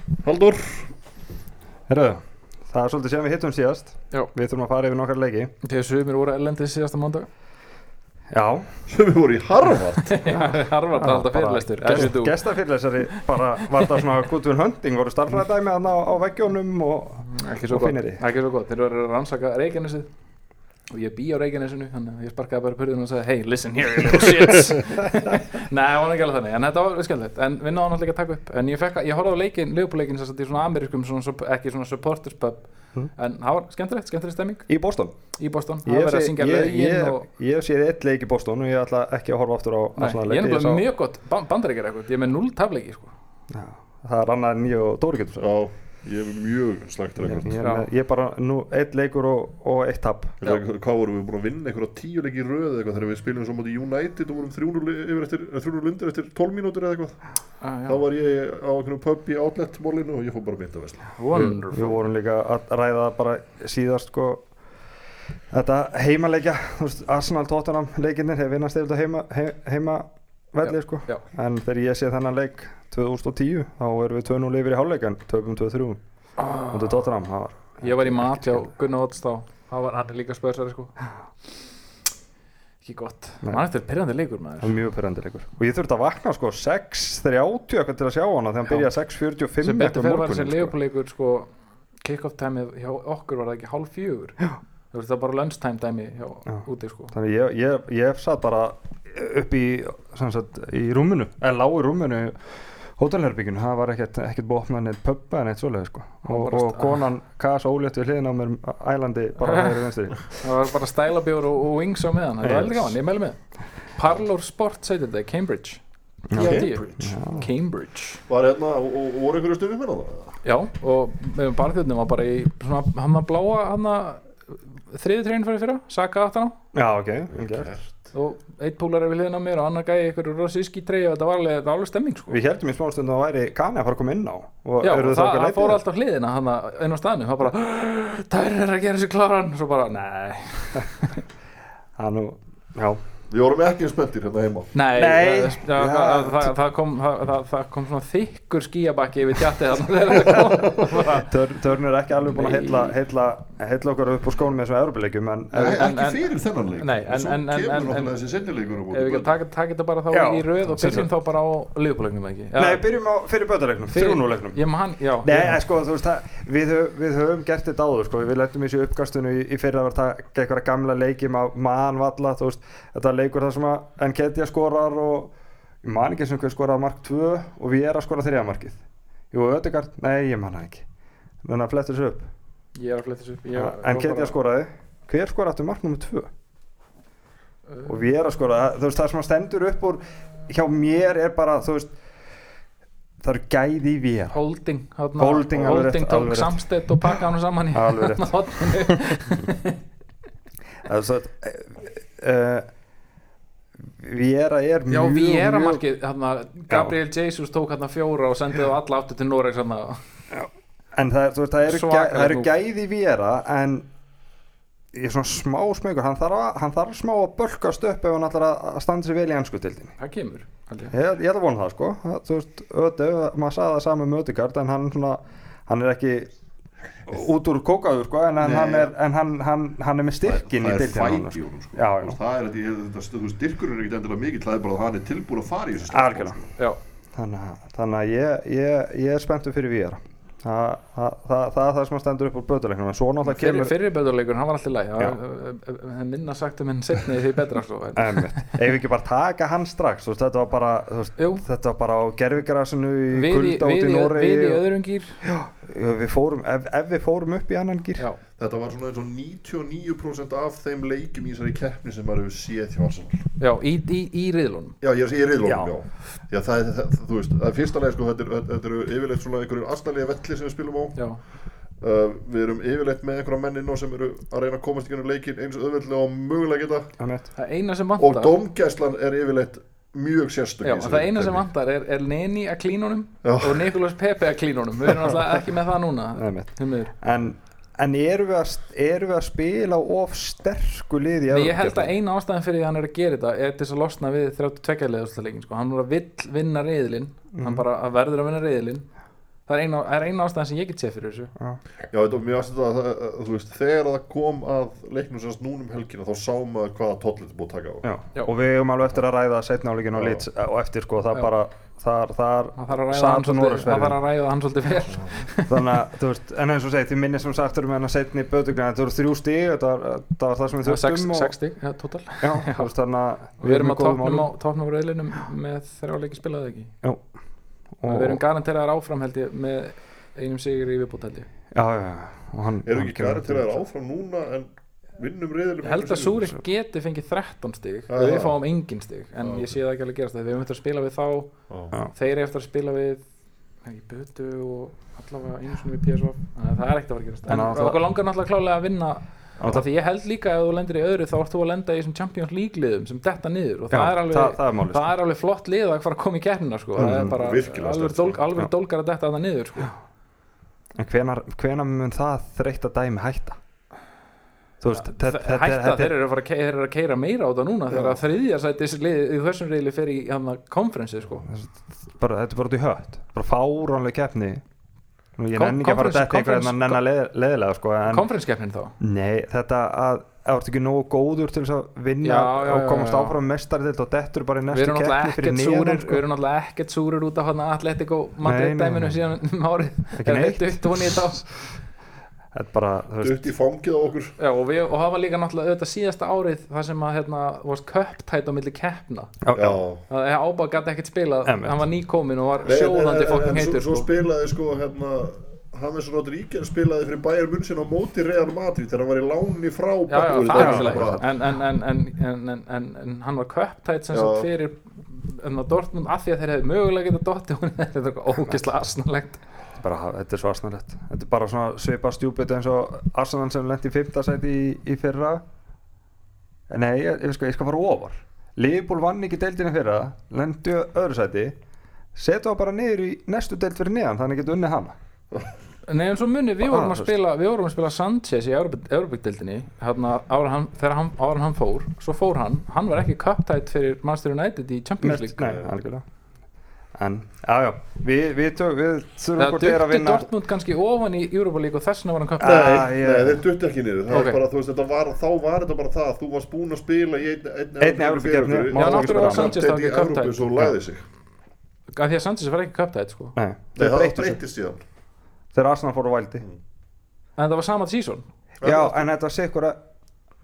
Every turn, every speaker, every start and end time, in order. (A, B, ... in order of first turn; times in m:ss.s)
0:00.2-0:00.9 A
0:01.9-0:05.5 B
0:05.6-0:07.3 C
0:08.3-0:08.7 B
0:08.9-0:10.4 A
0:10.0-0:12.4 C
0:11.0-0:18.2 B
0:13.6-0:13.9 C
0:17.3-0:20.1 C
0:20.9-0:34.7 C
0:34.7-0:35.2 B
0:35.4-0:37.2 C
0:35.8-0:40.8 B
0:40.0-0:43.1 C
0:43.5-0:45.5 B
0:45.4-0:47.6 A
0:47.2-0:50.4 B
0:47.6-0:47.9 C
0:50.4-0:57.2 A
0:57.6-0:58.0 C
0:57.9-1:01.6 A
1:01.2-1:02.0 C
1:01.4-1:04.5 B
1:05.5-1:16.0 B
1:10.6-1:11.2 C
1:16.4-1:16.9 C
1:16.7-1:18.7 B
1:17.8-1:21.0 C
1:22.8-1:24.7 C
1:24.6-1:30.7 B
1:29.6-1:31.5 C
1:32.0-1:37.1 C
1:36.5-1:50.4 B
1:46.2-1:47.1 C
1:49.4-1:58.2 C
1:52.4-1:53.0 B
1:56.3-1:57.5 B
1:56.4-1:57.5 A
1:58.3-2:00.4 A
2:00.4-2:06.6 C
2:06.7-2:07.7 B
2:07.3-2:08.0 A
2:08.1-2:12.4 C
2:12.3-2:15.8 B
2:14.8-2:21.2 C
2:22.0-2:23.0 B
2:23.3-2:24.7 A
2:24.7-2:31.3 C
2:24.9-2:26.5 B
2:30.9-2:35.9 B
2:32.3-2:32.9 C
2:35.5-2:36.2 C
2:35.6-2:39.3 A
2:36.8-2:38.2 C
2:38.9-2:42.8 C
2:40.1-2:41.1 B
2:42.6-2:44.6 B
2:43.9-2:45.6 C
2:45.2-3:00.9 B
3:01.4-3:02.3 B
3:02.8-3:04.4 C
3:03.5-3:06.3 B
3:07.8-3:11.9 B
3:13.2-3:14.4 B
3:14.3-3:19.8 C
3:15.2-3:16.6 B
3:17.7-3:19.4 B
3:20.8-3:22.7 B
3:23.8-3:25.8 B
3:24.9-3:30.0 C
3:26.7-3:27.0 B
3:30.3-3:33.9 B
3:31.7-3:32.5 C
3:34.9-3:40.0 B
3:40.0-3:40.9 C
3:40.9-3:46.3 B
3:47.1-3:52.2 B
3:48.4-3:48.9 A
3:50.3-3:56.4 A
3:55.9-3:56.4 B
3:57.1-4:03.7 B
4:03.2-4:08.6 C
4:08.0-4:14.6 B
4:11.2-4:11.4 C
4:13.1-4:15.2 C
4:15.2-4:18.1 B
4:18.4-4:23.3 A
4:23.4-4:24.8 C
4:24.8-4:31.1 A
4:25.4-4:25.7 B
4:31.0-4:31.2 C
4:31.8-4:36.9 A
4:37.0-4:37.3 B
4:37.4-4:38.4 C
4:38.0-4:41.4 A
4:40.6-4:46.9 C
4:43.2-4:43.7 A
4:46.2-4:51.9 B
4:51.3-4:58.9 C
4:57.3-4:57.7 B
4:59.5-5:01.3 C
5:01.4-5:01.6 B
5:01.9-5:07.8 A
5:07.8-5:14.0 B
5:10.0-5:10.2 A
5:12.6-5:15.7 C
5:15.5-5:21.3 B
5:20.6-5:22.7 C
5:22.2-5:24.3 B
5:23.4-5:26.7 C
5:27.8-5:28.2 B
5:27.9-5:31.3 C
5:31.5-5:33.5 B
5:32.6-5:36.4 A
5:35.6-5:43.1 C
5:37.9-5:38.4 A
5:39.2-5:39.5 A
5:41.5-5:41.8 A
5:43.6-5:59.7 C
5:47.3-5:47.8 B
5:49.4-5:49.7 B
5:53.7-5:54.8 B
5:56.8-5:58.2 A
5:56.8-5:57.1 B
6:00.8-6:03.4 B
6:04.6-6:06.0 B
6:04.8-6:11.3 C
6:11.3-6:14.4 B
6:15.2-6:18.1 B
6:15.4-6:16.8 C
6:17.9-6:18.8 C
6:18.8-6:26.0 B
6:22.0-6:23.2 C
6:24.5-6:31.4 C
6:28.2-6:29.0 B
6:30.0-6:31.0 B
6:32.3-6:33.2 B
6:33.0-6:34.2 A
6:34.2-6:39.2 C
6:39.2-6:39.6 B
6:39.3-6:39.8 A
6:39.9-6:43.9 C
6:41.2-6:41.6 B
6:42.4-6:51.1 A
6:49.9-6:59.2 C
6:50.3-6:51.0 B
6:53.9-6:54.3 A
6:59.6-7:05.2 B
7:06.5-7:11.4 B
7:12.0-7:14.8 B
7:15.7-7:25.5 C
7:16.4-7:16.9 B
7:24.8-7:25.9 B
7:26.8-7:30.1 B
7:29.2-7:32.7 C
7:32.2-7:33.2 B
7:32.2-7:40.8 A
7:33.9-7:34.2 C
7:37.6-7:39.4 B
7:38.5-7:40.2 C
7:41.8-7:43.2 C
7:43.2-7:44.2 B
7:43.6-7:44.6 A
7:45.3-7:46.2 B
7:47.2-7:48.1 C
7:48.4-7:48.8 A
7:48.4-7:49.6 B